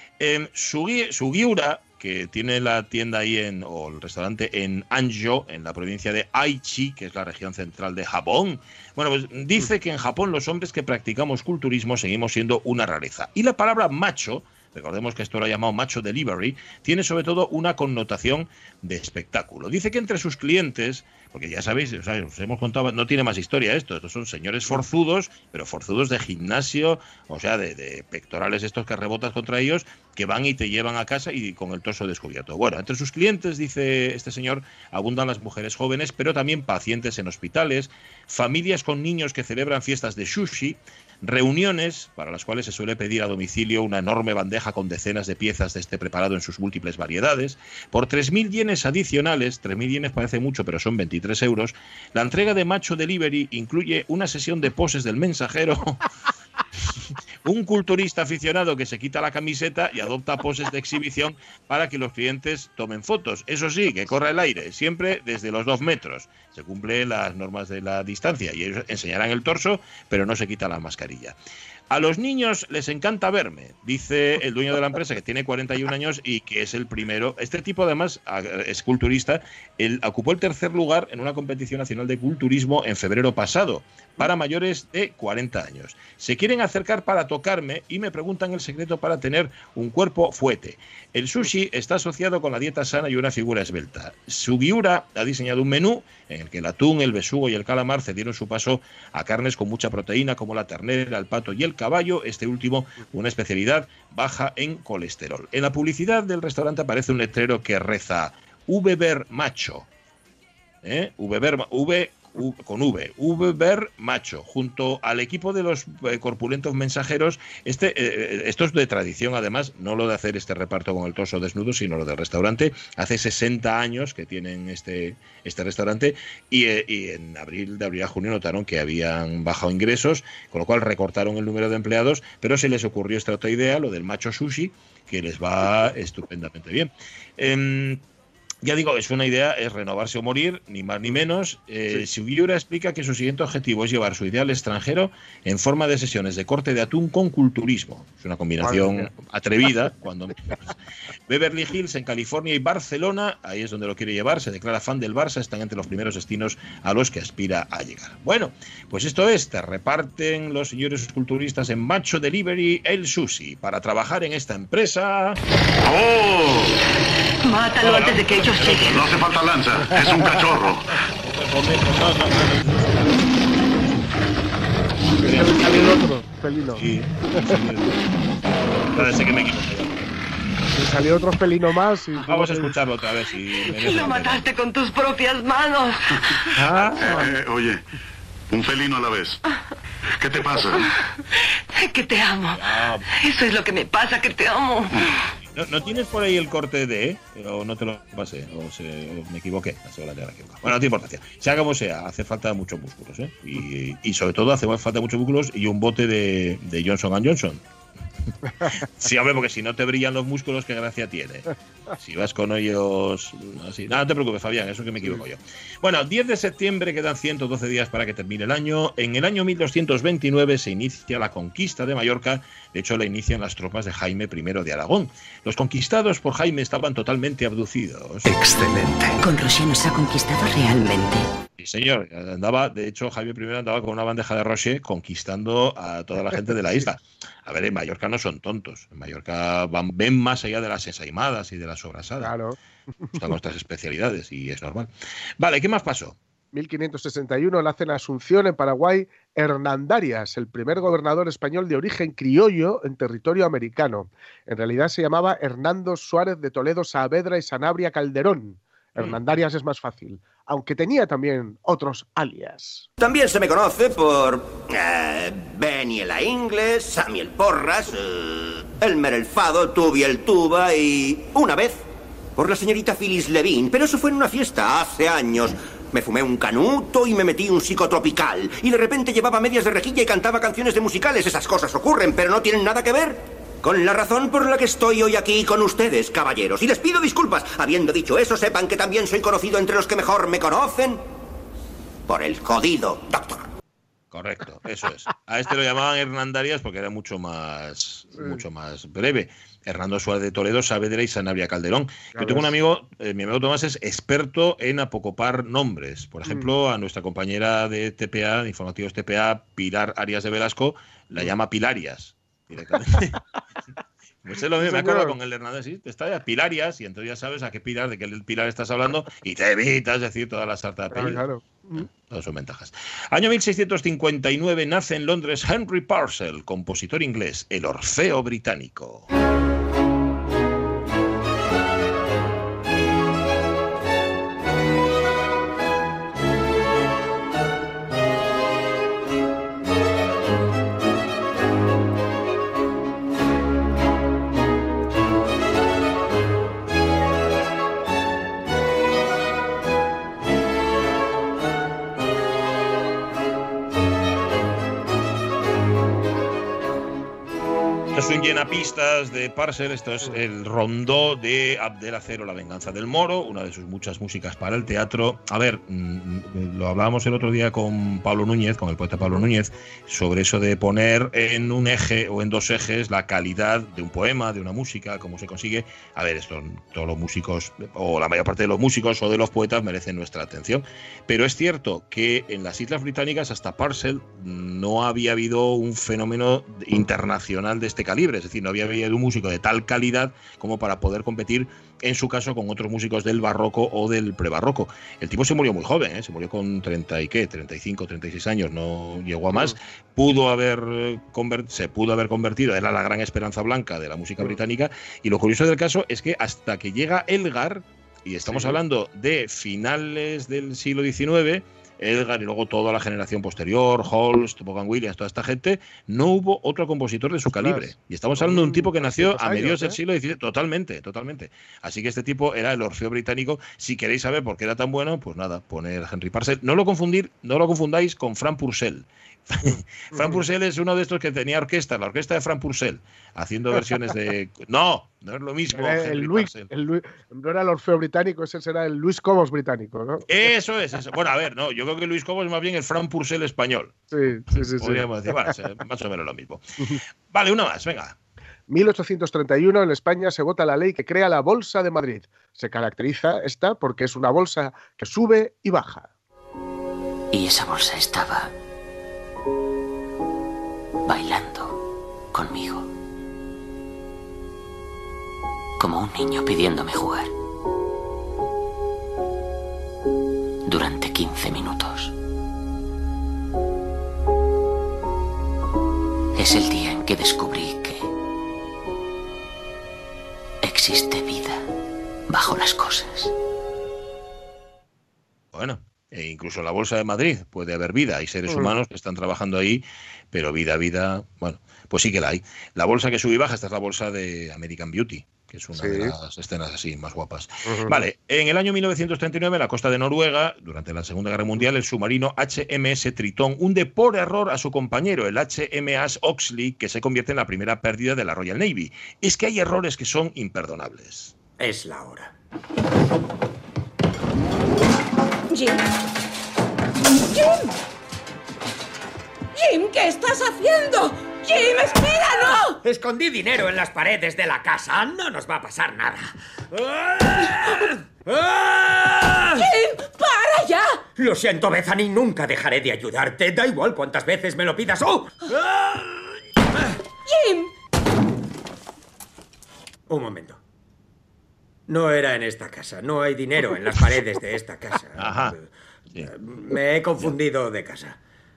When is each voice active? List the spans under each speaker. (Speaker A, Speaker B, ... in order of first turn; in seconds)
Speaker A: 0.2-56.1, 56.9-71.4, 71.9-109.9, 110.8-138.0, 138.6-150.7, 151.3-165.4, 167.8-169.1, 171.2-174.3, 175.0-176.0, 176.8-180.2, 182.2-184.5, 186.6-187.3, 192.5-193.1, 195.5-207.6, 208.6-228.3, 231.6-242.3, 243.1-244.9, 245.4-246.2, 294.1-313.2, 314.2-321.2, 321.8-329.1, 357.9-436.5, 440.1-443.8, 444.3-446.4, 447.1-448.0, 485.3-511.1, 545.0-545.4
Speaker B: 148.6-149.1, 175.2-177.6, 180.7-182.7, 236.5-236.9, 242.2-243.2, 246.5-262.9, 298.2-298.4, 302.1-302.6, 314.6-315.2, 320.9-321.9, 369.0-369.2, 399.3-399.6, 408.2-408.6, 417.3-419.8, 429.9-430.2, 435.5-440.1, 443.9-445.4, 448.5-455.9, 488.3-488.6, 495.6-495.9, 497.4-497.9
Speaker C: 165.8-166.8, 168.9-171.0, 187.0-187.9, 188.5-189.4, 190.2-190.9
Speaker D: 167.4-169.0, 183.7-186.5, 191.8-195.1
Speaker E: 228.3-231.3, 457.1-458.3, 460.9-461.6, 462.1-462.7, 465.6-467.1, 470.5-471.9, 476.2-477.9, 480.4-481.4, 482.1-483.1
Speaker F: 263.0-271.8, 272.4-291.0, 292.1-293.5
Speaker G: 511.4-512.1, 522.6-529.5, 531.0-536.8, 539.9-540.4, 541.7-548.0
Speaker H: 515.3-515.6, 516.9-517.6, 519.3-522.6, 529.4-530.8, 537.0-537.5